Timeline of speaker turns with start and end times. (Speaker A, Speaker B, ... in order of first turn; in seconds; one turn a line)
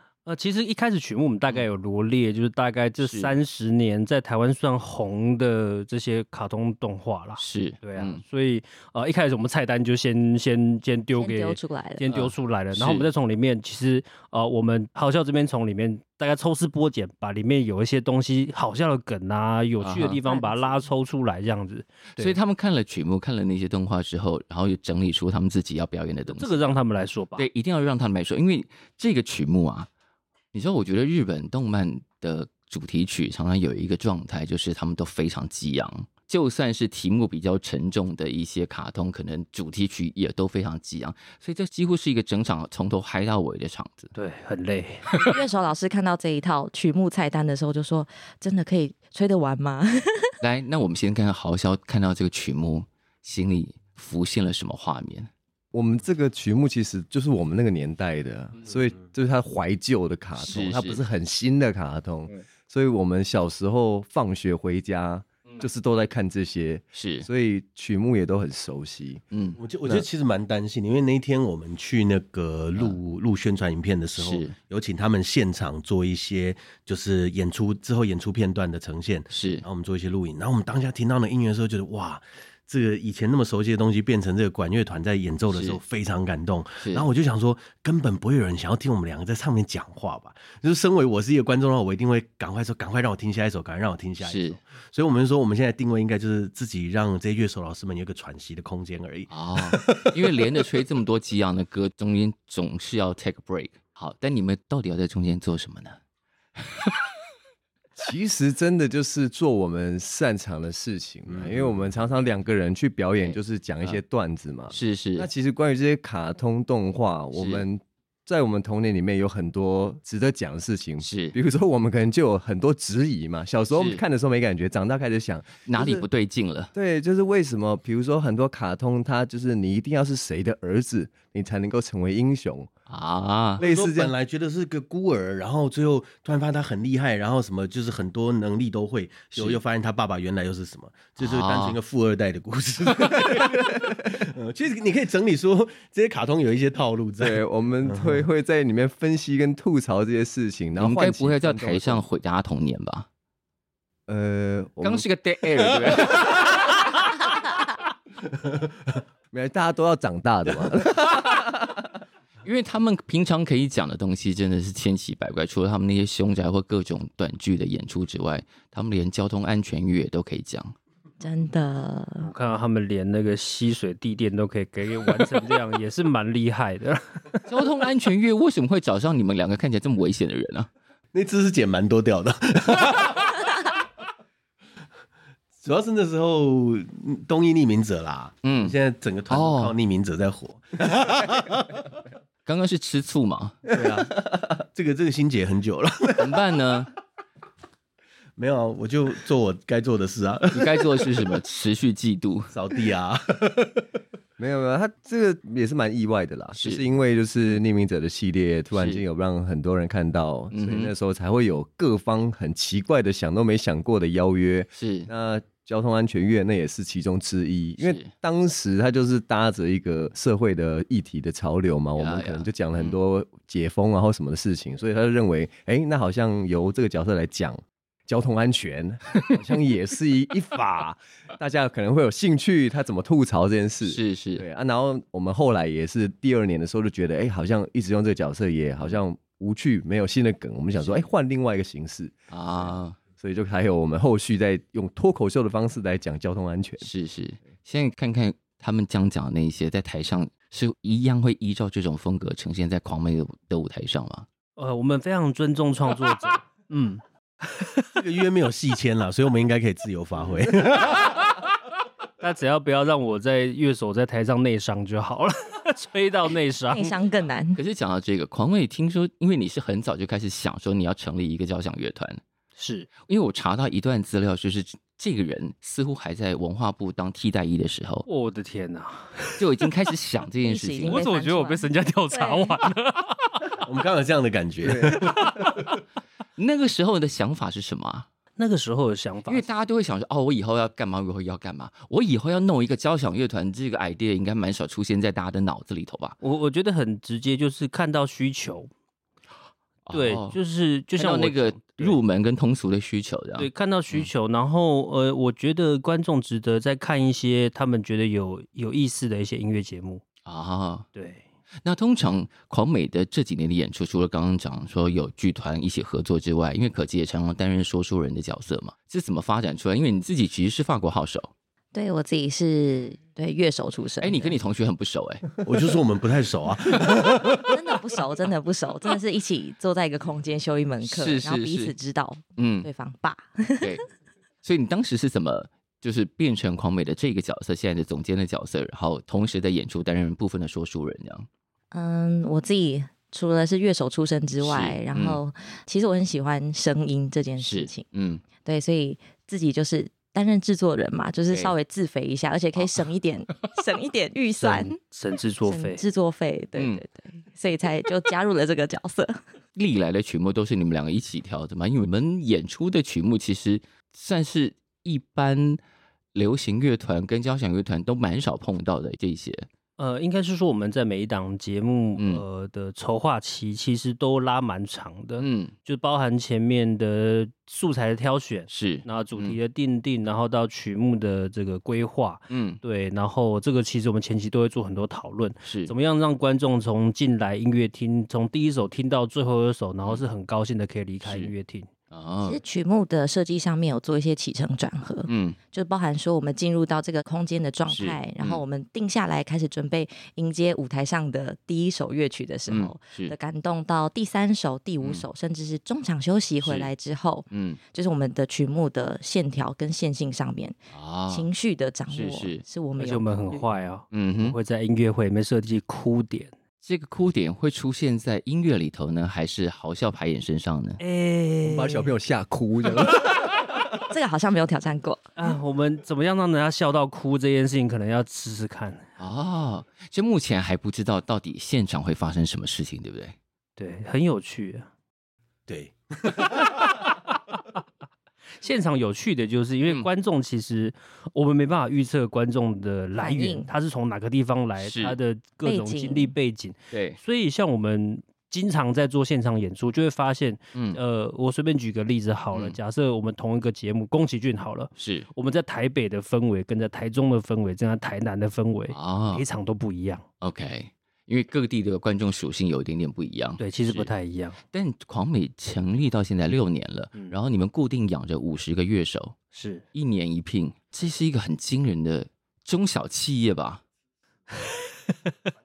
Speaker A: 0.2-22.4
Speaker B: 3.0-3.3
Speaker B: 7.4-8.2
Speaker C: 11.2-12.0
Speaker B: 12.1-13.1
Speaker B: 19.8-20.2
Speaker C: 20.2-20.9
Speaker B: 22.2-26.6
Speaker A: 26.3-27.5
Speaker B: 27.4-29.9
Speaker B: 30.5-44.1
Speaker A: 44.1-45.2
Speaker C: 45.2-50.3
Speaker B: 50.4-55.3
Speaker D: 55.7-69.2
Speaker B: 60.4-61.0
Speaker B: 66.9-67.3
Speaker B: 69.3-69.6
Speaker E: 69.6-100.5
Speaker B: 74.2-74.5
Speaker B: 79.3-79.6
Speaker B: 85.5-85.8
Speaker B: 86.8-87.1
Speaker B: 94.2-94.6
Speaker B: 99.3-106.0
Speaker B: 106.5-107.0
Speaker D: 108.0-126.0
Speaker E: 111.3-111.7
Speaker B: 113.2-114.0
Speaker B: 114.7-115.3
Speaker B: 117.3-117.7
Speaker B: 121.0-121.3
Speaker B: 123.7-124.0
Speaker B: 125.7-126.7
Speaker D: 126.7-132.7
Speaker B: 132.9-133.6
Speaker D: 133.6-134.1
Speaker E: 133.6-148.2
Speaker B: 139.3-139.6
Speaker B: 141.2-141.8
Speaker D: 143.3-144.0
Speaker D: 147.2-152.0
Speaker B: 150.8-153.1
Speaker D: 154.1-155.1
Speaker B: 154.8-156.8
Speaker D: 159.3-161.8
Speaker B: 162.4-170.7
Speaker C: 171.2-172.3
Speaker A: 172.2-177.5
Speaker B: 177.5-180.7
Speaker E: 181.1-183.3
Speaker E: 185.6-191.8
Speaker B: 188.4-188.8
Speaker B: 189.3-189.7
Speaker B: 192.4-193.6
Speaker E: 193.7-196.4
Speaker B: 196.2-196.9
Speaker E: 198.4-201.2
Speaker B: 200.5-202.5
Speaker E: 202.5-203.8
Speaker D: 204.4-246.9
Speaker B: 206.6-206.8
Speaker B: 208.7-209.0
Speaker B: 210.5-210.9
Speaker B: 214.7-215.1
Speaker B: 217.8-218.1
Speaker B: 222.0-223.0
Speaker B: 233.8-234.4
Speaker B: 242.3-243.0
Speaker B: 246.8-254.3
Speaker A: 254.6-257.9
Speaker E: 257.9-261.0
Speaker A: 262.2-266.9
Speaker C: 266.7-267.6
Speaker B: 267.5-272.2
Speaker A: 272.6-272.9
Speaker B: 273.0-278.1
Speaker A: 278.1-279.7
Speaker B: 279.4-281.0
Speaker C: 280.4-282.6
Speaker A: 280.8-283.4
Speaker E: 283.6-285.4
Speaker D: 284.6-285.0
Speaker B: 286.4-288.1
Speaker A: 288.4-289.4
Speaker B: 289.3-296.2
Speaker A: 296.2-298.7
Speaker B: 299.9-300.4
Speaker A: 299.9-302.0
Speaker B: 300.9-304.1
Speaker A: 303.4-310.0
Speaker B: 310.2-310.9
Speaker A: 310.9-311.2
Speaker B: 311.6-321.3
Speaker C: 321.7-324.3
Speaker B: 324.0-325.3
Speaker E: 325.4-327.5
Speaker C: 327.4-333.7
Speaker B: 330.8-331.7
Speaker B: 332.4-332.7
Speaker B: 334.4-341.3
Speaker C: 341.7-347.8
Speaker B: 344.4-345.2
Speaker B: 347.4-348.2
Speaker C: 348.4-354.8
Speaker B: 352.6-352.8
Speaker A: 354.4-355.8
Speaker C: 355.4-359.2
Speaker B: 356.6-356.8
Speaker B: 359.5-365.6
Speaker B: 366.1-369.5
Speaker A: 369.8-391.7
Speaker B: 371.9-372.2
Speaker B: 375.2-375.5
Speaker B: 378.5-379.4
Speaker B: 382.3-382.6
Speaker B: 385.4-385.7
Speaker B: 391.0-391.3
Speaker B: 391.9-392.4
Speaker C: 392.2-410.6
Speaker B: 395.1-395.4
Speaker B: 397.7-398.4
Speaker B: 402.5-403.1
Speaker B: 406.4-406.7
Speaker B: 407.3-407.6
Speaker B: 410.7-411.2
Speaker C: 411.1-413.4
Speaker B: 411.9-412.4
Speaker A: 412.8-416.3
Speaker B: 413.9-414.4
Speaker B: 416.6-420.8
Speaker A: 420.8-421.9
Speaker D: 421.4-423.2
Speaker C: 423.9-425.1
Speaker A: 425.2-428.8
Speaker B: 429.0-433.1
Speaker A: 433.6-434.7
Speaker E: 435.5-436.5
Speaker A: 438.4-460.0
Speaker C: 443.0-443.5
Speaker B: 444.6-445.0
Speaker C: 445.4-446.1
Speaker B: 446.7-447.0
Speaker B: 450.5-450.8
Speaker B: 452.3-452.6
Speaker B: 454.8-455.1
Speaker B: 458.7-459.2
Speaker B: 460.2-463.9
Speaker A: 463.4-464.4
Speaker B: 464.5-469.2
Speaker A: 469.3-469.6
Speaker B: 469.7-473.6